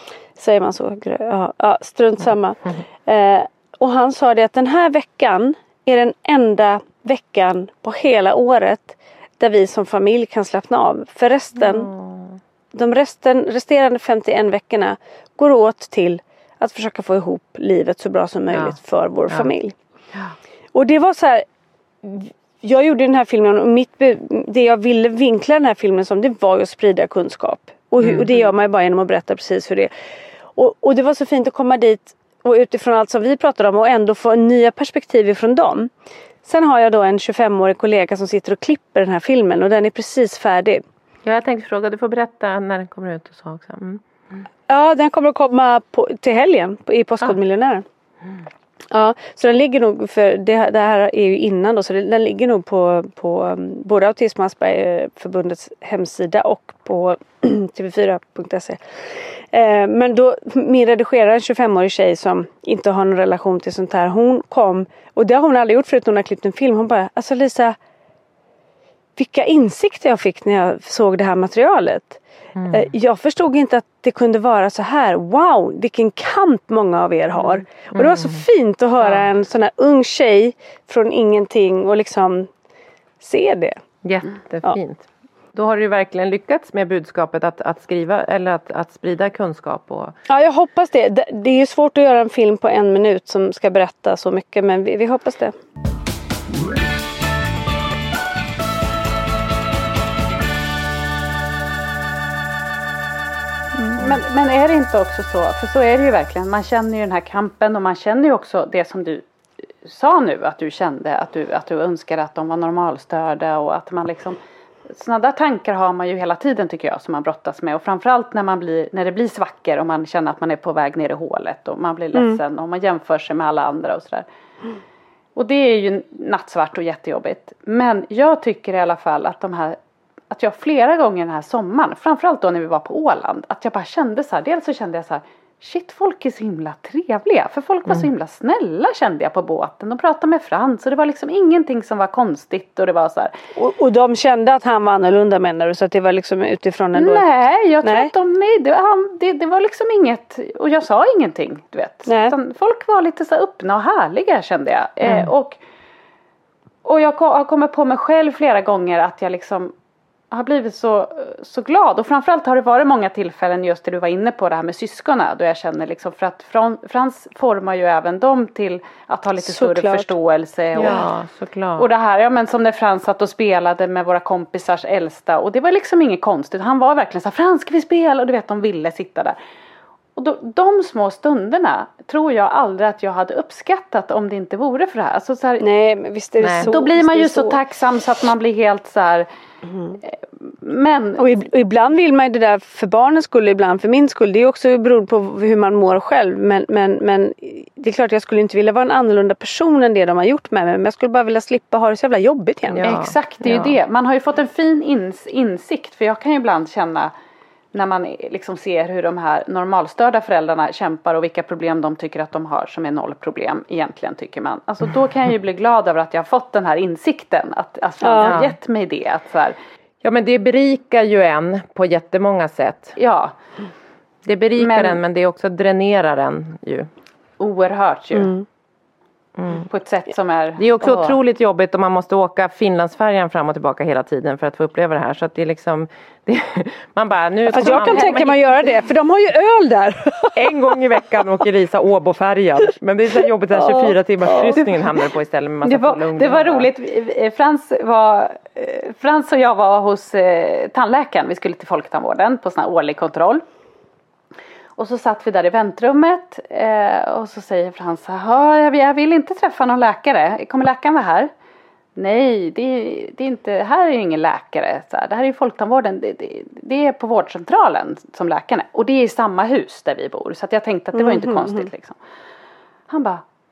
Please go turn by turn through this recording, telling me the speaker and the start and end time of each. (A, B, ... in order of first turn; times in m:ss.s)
0:00.4-0:11.9 A
0:11.6-0:12.4 B
0:12.7-0:19.8 A
0:18.5-0:18.8 B
0:20.7-0:21.4 A
0:22.0-0:29.9 A
0:28.0-0:28.3 B
0:30.6-0:35.9 A
0:36.4-0:40.8 A
0:41.3-0:44.4 B
0:44.7-0:47.8 A
0:48.9-1:07.8 A
1:09.2-1:22.5 A
1:12.6-1:12.9 B
1:17.9-1:18.4 B
1:23.2-1:23.8 A
1:24.0-1:30.2 B
1:30.3-1:35.6 A
1:43.9-1:49.2 C
1:49.8-2:04.3 C
2:02.1-2:02.4 A
2:05.4-2:09.8 C
2:10.3-2:23.3 C
2:23.6-2:27.3 A
2:27.0-2:35.6 C
2:27.8-2:28.1 A
2:32.1-2:32.4 A
2:36.8-2:39.7 C
2:40.3-2:51.0 C
2:49.4-2:50.1 A
2:50.8-2:51.9 B
2:51.8-2:59.4 C
3:00.2-3:05.6 C
3:05.6-3:07.6 A
3:06.4-3:06.7 B
3:06.7-3:09.3 C
3:10.0-3:11.3 C
3:11.2-3:23.0 A
3:22.7-3:23.8 B
3:22.8-3:27.1 C
3:27.7-3:39.6 C
3:38.0-3:38.4 A
3:38.3-3:38.6 B
3:40.0-3:43.0 B
3:43.0-3:43.4 C
3:44.2-3:46.9 B
3:44.6-3:45.0 C
3:47.4-3:48.3 C
3:48.2-3:48.4 A
3:49.4-3:49.7 B
3:49.7-3:51.2 C
3:50.6-3:58.8 B
3:57.5-4:00.5 A
3:57.6-3:58.1 C
4:00.3-4:06.7 B
4:03.5-4:04.8 A
4:05.6-4:13.4 C
4:14.8-4:21.3 C
4:22.0-4:32.0 C
4:30.9-4:31.7 A
4:32.9-4:33.2 C